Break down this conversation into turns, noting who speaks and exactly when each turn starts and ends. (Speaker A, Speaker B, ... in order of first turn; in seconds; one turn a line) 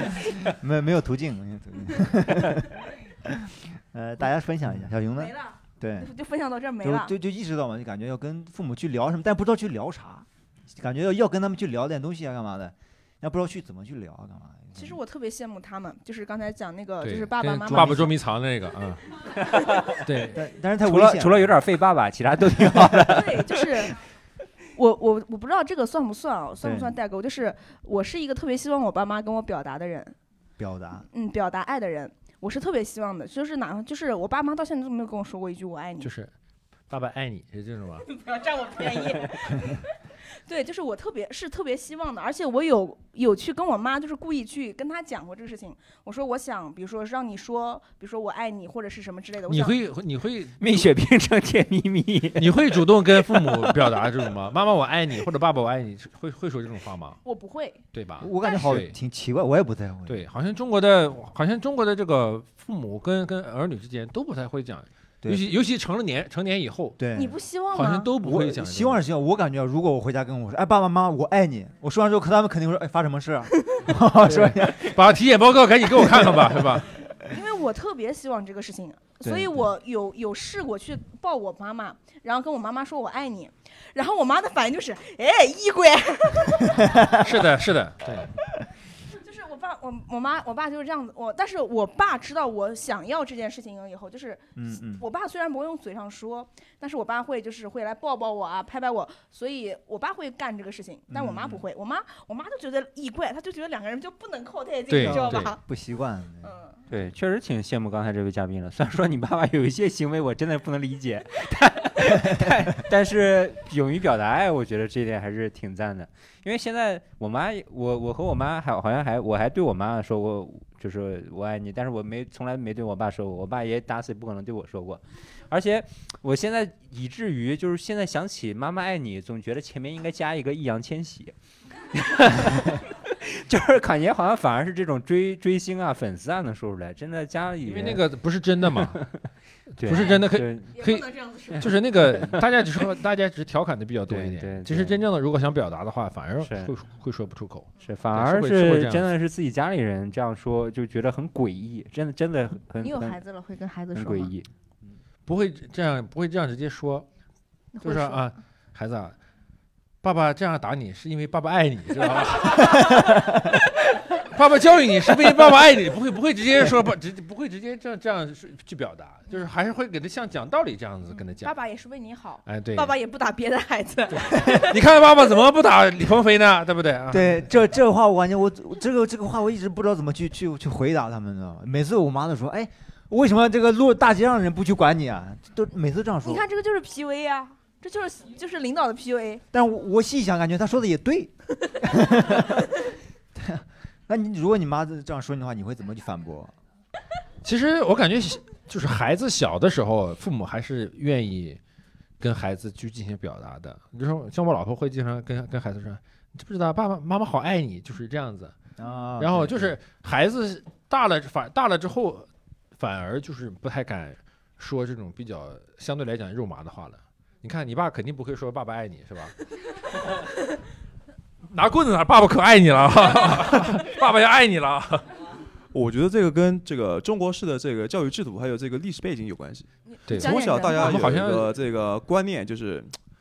Speaker A: 0.5-6.1
Speaker B: 5.1-7.1
Speaker A: 6.8-15.0
Speaker B: 14.8-18.2
Speaker C: 17.0-19.0
Speaker A: 17.7-18.1
Speaker C: 20.0-20.4
Speaker A: 20.2-21.6
Speaker D: 20.8-23.5
Speaker B: 23.1-23.9
Speaker B: 24.8-30.1
Speaker A: 26.6-27.0
Speaker A: 30.6-31.1
Speaker B: 31.1-36.1
Speaker C: 36.0-36.3
Speaker C: 36.9-38.1
Speaker B: 38.1-39.8
Speaker B: 40.5-49.8
Speaker C: 49.5-50.9
Speaker D: 50.6-53.9
Speaker C: 52.4-57.2
Speaker B: 57.2-57.8
Speaker C: 57.9-58.9
Speaker A: 58.2-60.3
Speaker B: 58.4-58.8
Speaker C: 60.1-67.0
Speaker A: 65.2-65.5
Speaker A: 67.0-67.4
Speaker B: 67.2-68.1
Speaker C: 67.7-69.0
Speaker A: 68.2-75.0
Speaker C: 74.2-76.9
Speaker A: 76.1-76.3
Speaker B: 77.3-87.2
Speaker A: 79.2-79.7
Speaker C: 87.2-88.3
Speaker B: 89.1-105.6
Speaker A: 94.6-95.0
Speaker A: 101.1-101.6
Speaker C: 104.9-105.5
Speaker A: 105.0-106.5
Speaker B: 106.4-106.8
Speaker D: 106.9-131.3
Speaker D: 131.9-138.0
Speaker C: 137.7-139.2
Speaker D: 138.7-139.0
Speaker D: 139.8-140.8
Speaker C: 139.8-149.1
Speaker B: 140.7-141.7
Speaker D: 141.5-142.4
Speaker D: 144.1-145.0
Speaker D: 146.4-146.7
Speaker D: 147.8-153.2
Speaker B: 152.8-154.3
Speaker D: 153.9-154.5
Speaker C: 155.3-157.1
Speaker B: 157.8-158.3
Speaker C: 157.8-159.2
Speaker C: 160.0-171.6
Speaker B: 171.1-174.8
Speaker C: 172.4-173.0
Speaker C: 174.4-177.5
Speaker A: 177.1-186.4
Speaker B: 186.2-189.4
Speaker A: 189.5-192.7
Speaker A: 193.3-196.5
Speaker C: 197.4-201.6
Speaker C: 202.2-208.6
Speaker A: 208.8-209.8
Speaker C: 209.2-219.4
Speaker C: 221.5-225.1
Speaker E: 225.7-232.9
Speaker B: 229.8-231.1
Speaker C: 230.1-231.5